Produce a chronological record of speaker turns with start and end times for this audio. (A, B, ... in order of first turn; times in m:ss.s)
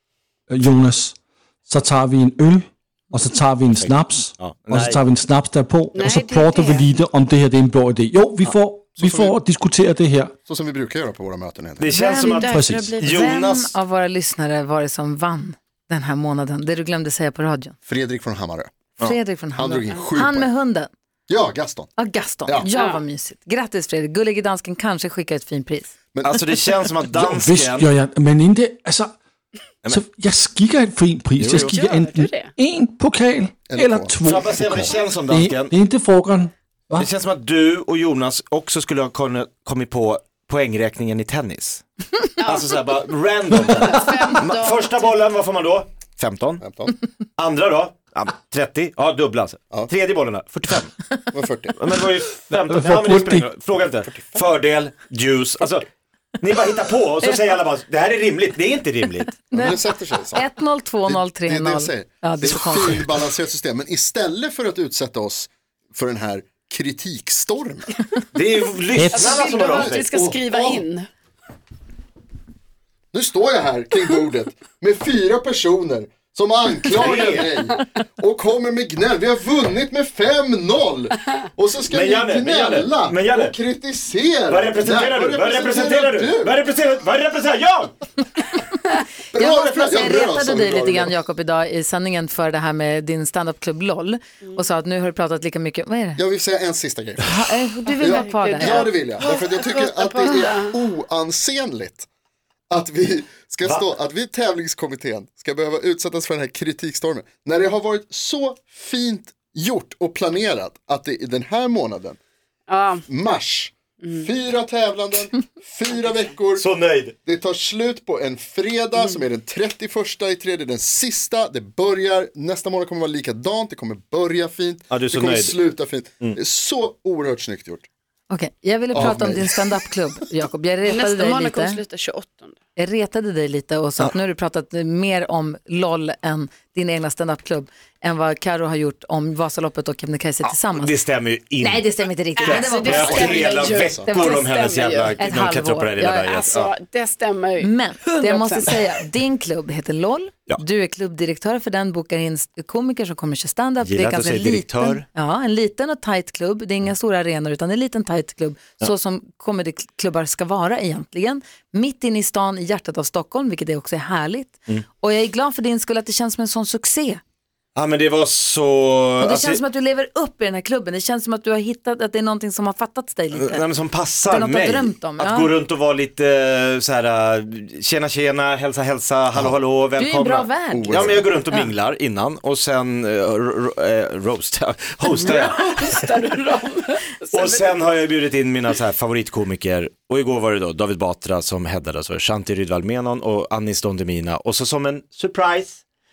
0:00.5-0:10.3 A
0:03.7-0:05.0 B
0:05.9-0:06.9 C
0:09.0-0:09.4 D
0:10.4-0:12.0 D
0:11.8-0:13.7 B
0:11.9-0:13.4 C
0:12.5-0:12.9 A
0:13.0-0:17.8 E
0:17.8-0:18.7 D
0:19.0-0:20.9 E
0:19.5-0:20.5 D
0:21.3-0:21.9 D
0:22.0-0:25.9 E
0:22.6-0:23.0 C
0:26.1-0:26.4 D
0:26.2-0:27.9 B
0:27.1-0:29.1 A
0:29.9-0:37.1 A
0:31.4-0:31.8 B
0:31.6-0:32.5 C
0:33.7-0:34.8 D
0:34.2-0:35.7 B
0:37.0-0:41.8 B
0:42.4-0:42.7 C
0:42.4-0:46.6 B
0:43.6-0:45.1 C
0:46.6-0:46.9 D
0:47.4-0:51.0 B
0:51.3-0:51.7 D
0:51.7-0:55.9 B
0:52.6-0:53.4 A
0:56.4-0:59.4 B
0:59.5-1:03.1 E
0:59.5-1:00.5 D
1:01.0-1:08.0 D
1:08.3-1:10.1 B
1:09.0-1:09.2 A
1:09.1-1:11.1 C
1:09.2-1:10.8 D
1:13.1-1:26.5 D
1:16.9-1:17.5 B
1:21.9-1:23.5 B
1:24.5-1:27.9 B
1:29.3-1:31.2 D
1:29.3-1:36.2 E
1:36.2-1:37.4 D
1:37.2-1:38.9 E
1:38.0-1:42.1 D
1:38.0-1:40.7 C
1:42.7-1:52.2 D
1:52.7-1:53.0 C
1:53.1-1:56.7 D
1:54.0-1:54.3 C
1:56.6-1:57.1 B
1:57.2-2:07.8 D
2:04.9-2:05.6 B
2:08.3-2:11.8 E
2:08.9-2:09.6 D
2:10.8-2:12.6 C
2:12.8-2:21.0 E
2:20.4-2:21.8 B
2:21.6-2:23.5 E
2:22.4-2:25.2 C
2:22.4-2:26.7 B
2:22.9-2:24.1 D
2:24.1-2:24.3 E
2:25.2-2:26.1 E
2:26.0-2:28.8 C
2:27.6-2:47.2 E
2:33.8-2:35.0 B
2:47.7-2:49.6 B
2:49.2-2:53.6 E
2:53.3-3:05.9 B
2:54.2-2:55.5 E
3:00.0-3:01.0 E
3:00.7-3:01.3 D
3:05.0-3:08.0 C
3:07.3-3:15.8 B